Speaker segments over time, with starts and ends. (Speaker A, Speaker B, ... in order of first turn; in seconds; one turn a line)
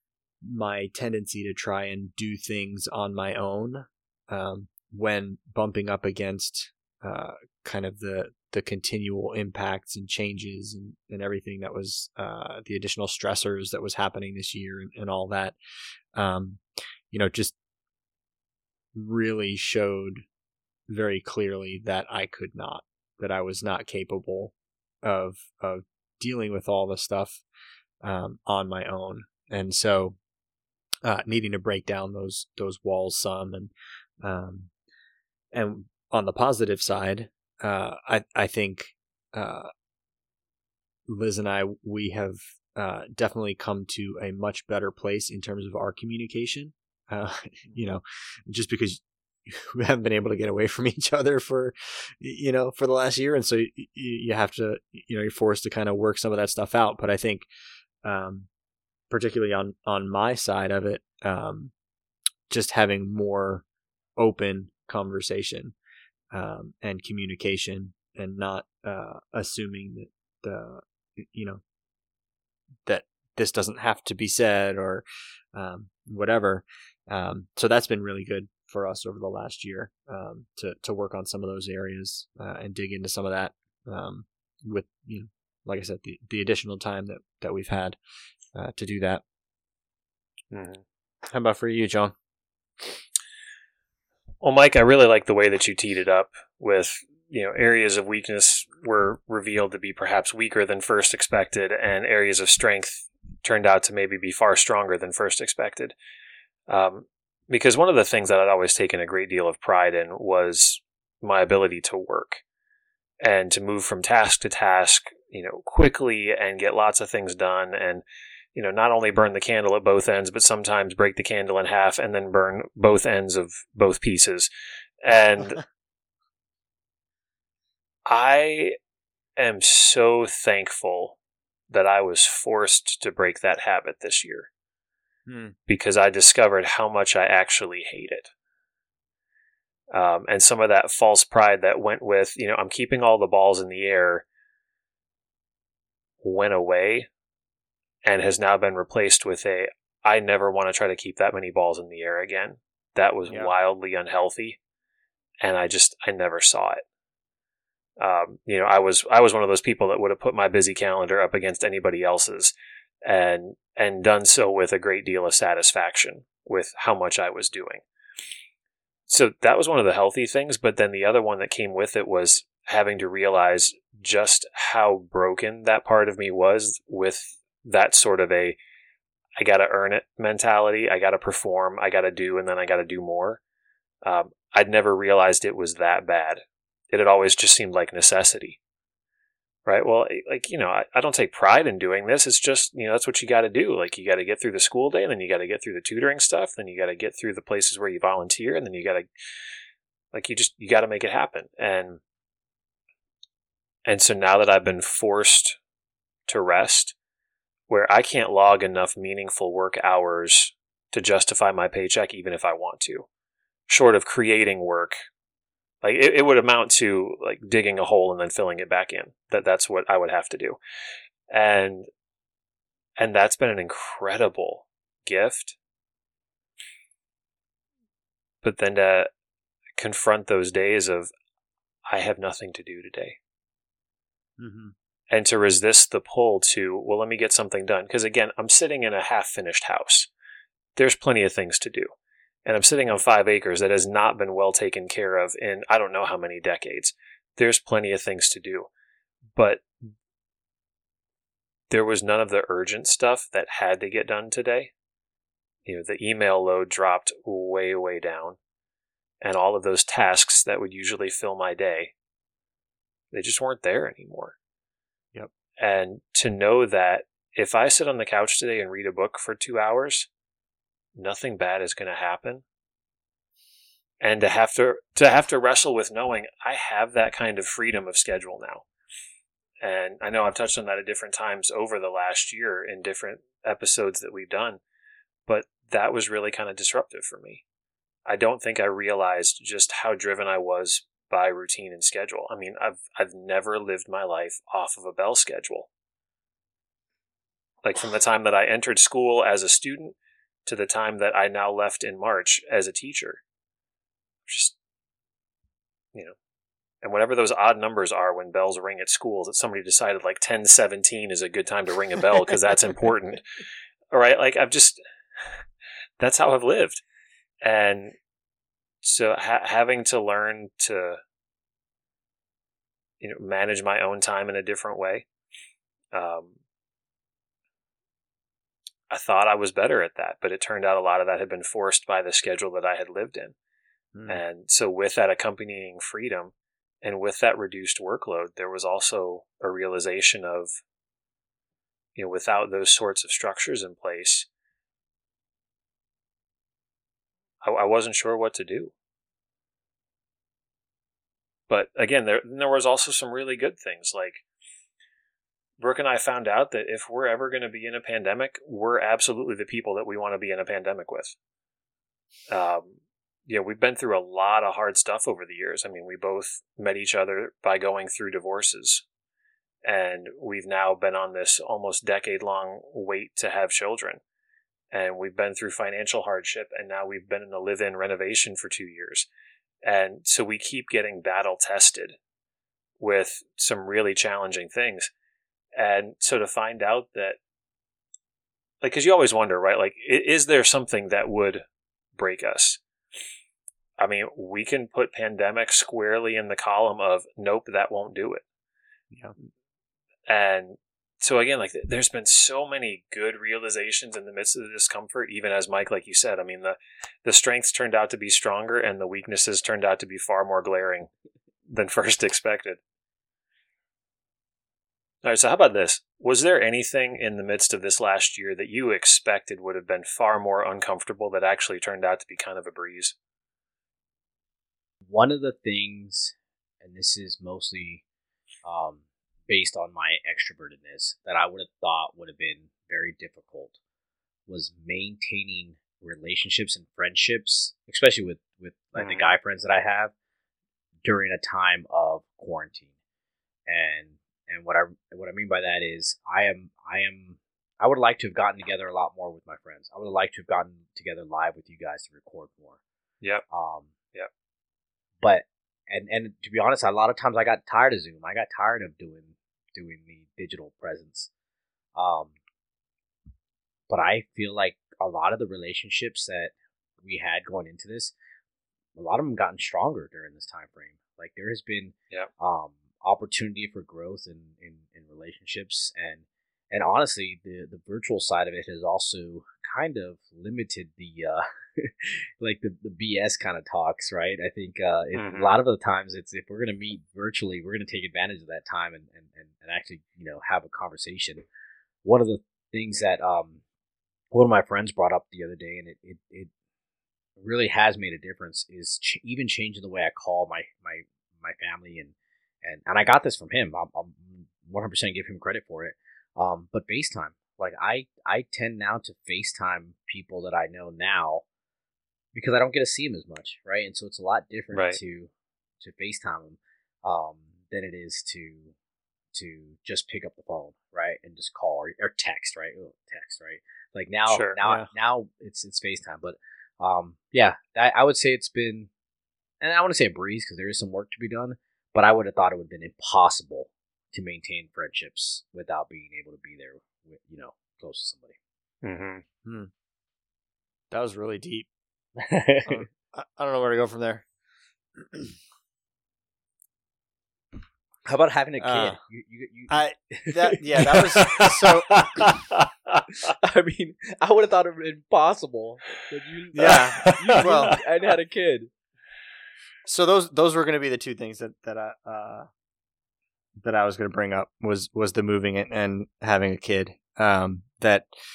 Speaker A: 0.4-15.6
Speaker A: 16.1-17.6
Speaker A: 18.9-20.2
Speaker A: 20.9-27.4
Speaker A: 28.0-30.2
Speaker A: 31.0-34.7
Speaker A: 35.5-39.7
Speaker A: 41.1-57.5
Speaker A: 58.0-58.5
Speaker A: 59.1-61.7
Speaker A: 62.5-63.6
Speaker A: 64.2-65.7
Speaker A: 66.3-71.6
Speaker A: 72.9-88.0
Speaker A: 88.5-89.2
Speaker B: 90.5-90.8
Speaker A: 91.3-92.2
Speaker B: 94.4-106.0
Speaker B: 106.7-112.4
Speaker B: 113.2-118.0
Speaker B: 118.5-124.5
Speaker B: 125.0-125.6
Speaker B: 128.1-128.8
Speaker B: 129.4-131.2
Speaker B: 131.7-134.5
Speaker A: 135.3-135.6
Speaker B: 135.7-138.3
Speaker B: 139.9-144.2
Speaker B: 146.2-147.1
Speaker B: 148.0-154.6
Speaker A: 153.3-153.5
Speaker B: 155.4-156.8
Speaker B: 158.0-162.5
Speaker B: 163.1-167.8
Speaker B: 169.1-178.6
Speaker B: 179.4-183.4
Speaker B: 184.0-188.6
Speaker B: 189.7-199.1
Speaker B: 200.1-202.0
Speaker B: 203.9-205.6
Speaker B: 206.3-206.9
Speaker B: 207.7-213.1
Speaker B: 213.7-215.0
Speaker B: 215.8-220.6
Speaker B: 221.3-221.9
Speaker B: 223.0-225.6
Speaker B: 228.4-229.1
Speaker B: 229.8-231.1
Speaker B: 231.9-233.2
Speaker A: 234.4-234.7
Speaker B: 235.1-240.1
Speaker B: 240.8-241.9
Speaker B: 242.4-248.7
Speaker B: 249.4-249.7
Speaker B: 251.7-254.7
Speaker B: 255.7-258.4
Speaker B: 259.2-261.9
Speaker B: 263.1-264.4
Speaker B: 265.6-270.1
Speaker B: 270.9-272.4
Speaker B: 274.0-278.6
Speaker B: 279.6-284.6
Speaker B: 285.3-287.4
Speaker B: 288.1-295.7
Speaker B: 297.6-303.2
Speaker B: 304.3-304.6
Speaker B: 306.8-315.4
Speaker B: 316.0-316.8
Speaker B: 317.4-317.9
Speaker B: 318.8-321.0
Speaker B: 323.0-325.1
Speaker B: 325.9-326.4
Speaker B: 328.9-333.4
Speaker A: 333.9-334.2
Speaker B: 334.1-340.6
Speaker B: 342.0-344.3
Speaker B: 347.4-348.7
Speaker B: 351.5-354.2
Speaker B: 355.6-361.1
Speaker B: 362.3-368.8
Speaker B: 369.6-374.0
Speaker B: 374.7-379.1
Speaker B: 379.6-382.0
Speaker B: 382.8-384.9
Speaker B: 385.6-387.2
Speaker B: 388.6-391.4
Speaker B: 392.0-392.6
Speaker B: 393.8-398.2
Speaker B: 400.1-410.9
Speaker B: 411.5-412.6
Speaker B: 415.0-422.9
Speaker C: 424.9-427.8
Speaker C: 428.4-433.6
Speaker C: 434.3-439.9
Speaker B: 438.8-439.1
Speaker C: 440.8-442.7
Speaker C: 443.5-452.6
Speaker C: 453.3-453.7
Speaker C: 455.0-461.1
Speaker C: 461.8-462.1
Speaker C: 463.7-467.9
Speaker C: 468.8-491.2
Speaker B: 484.9-485.3
Speaker C: 491.8-493.4
Speaker C: 494.1-496.3
Speaker C: 497.2-511.2
Speaker C: 512.1-518.5
Speaker B: 514.5-514.8
Speaker C: 519.1-528.7
Speaker B: 524.1-524.4
Speaker A: 524.4-524.7
Speaker C: 529.4-538.2
Speaker B: 538.6-539.0
Speaker A: 539.2-539.5
Speaker A: 540.7-541.5
Speaker C: 542.0-542.6
Speaker A: 542.5-544.0
Speaker C: 547.9-552.2
Speaker A: 548.4-548.8
Speaker A: 549.5-551.9
Speaker C: 552.9-558.5
Speaker A: 556.4-557.6
Speaker B: 556.9-557.2
Speaker A: 559.7-562.3
Speaker A: 563.4-567.9